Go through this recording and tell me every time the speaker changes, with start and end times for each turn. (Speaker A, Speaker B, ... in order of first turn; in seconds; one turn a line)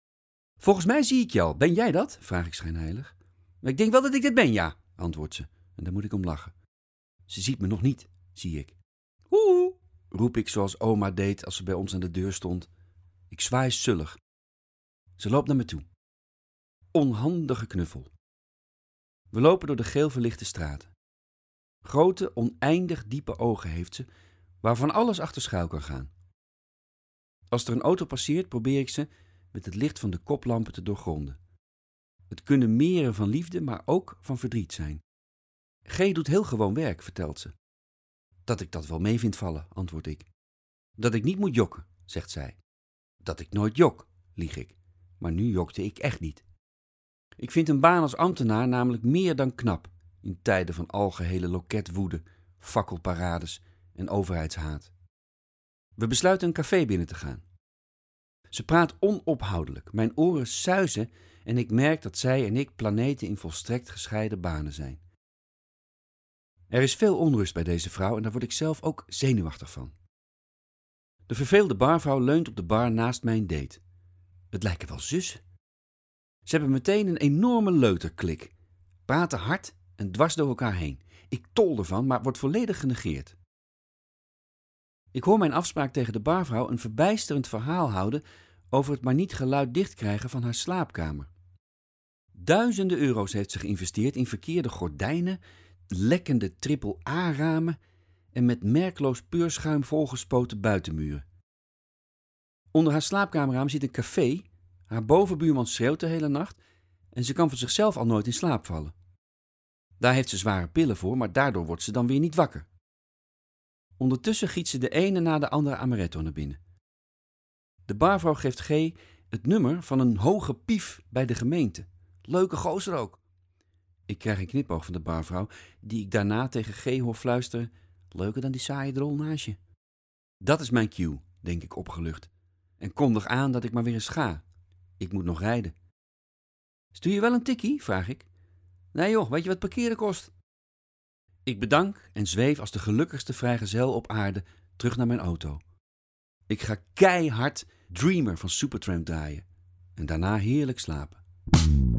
Speaker A: 0.6-6.5
Speaker A: 7.3-8.8
Speaker A: 9.3-12.7
Speaker A: 13.3-14.2
Speaker A: 15.2-15.8
Speaker A: 16.9-18.1
Speaker A: 19.3-20.9
Speaker A: 21.8-24.1
Speaker A: 24.6-26.1
Speaker A: 27.5-31.4
Speaker A: 32.3-35.0
Speaker A: 35.9-37.5
Speaker A: 38.5-40.3
Speaker A: 41.0-42.6
Speaker A: 43.2-46.4
Speaker A: 47.4-54.9
Speaker A: 56.0-57.4
Speaker A: 58.5-65.0
Speaker A: 66.7-69.9
Speaker A: 71.3-73.8
Speaker A: 74.5-75.4
Speaker A: 76.5-78.5
Speaker A: 79.0-83.3
Speaker A: 85.1-91.3
Speaker A: 92.3-95.4
Speaker A: 95.9-97.8
Speaker A: 98.3-101.2
Speaker A: 102.7-106.6
Speaker A: 107.1-108.9
Speaker A: 110.0-112.7
Speaker A: 114.0-116.6
Speaker A: 117.9-123.2
Speaker A: 124.1-129.6
Speaker A: 130.4-134.4
Speaker A: 135.0-135.7
Speaker A: 136.9-138.3
Speaker A: 138.9-140.3
Speaker A: 141.4-145.6
Speaker A: 146.5-151.2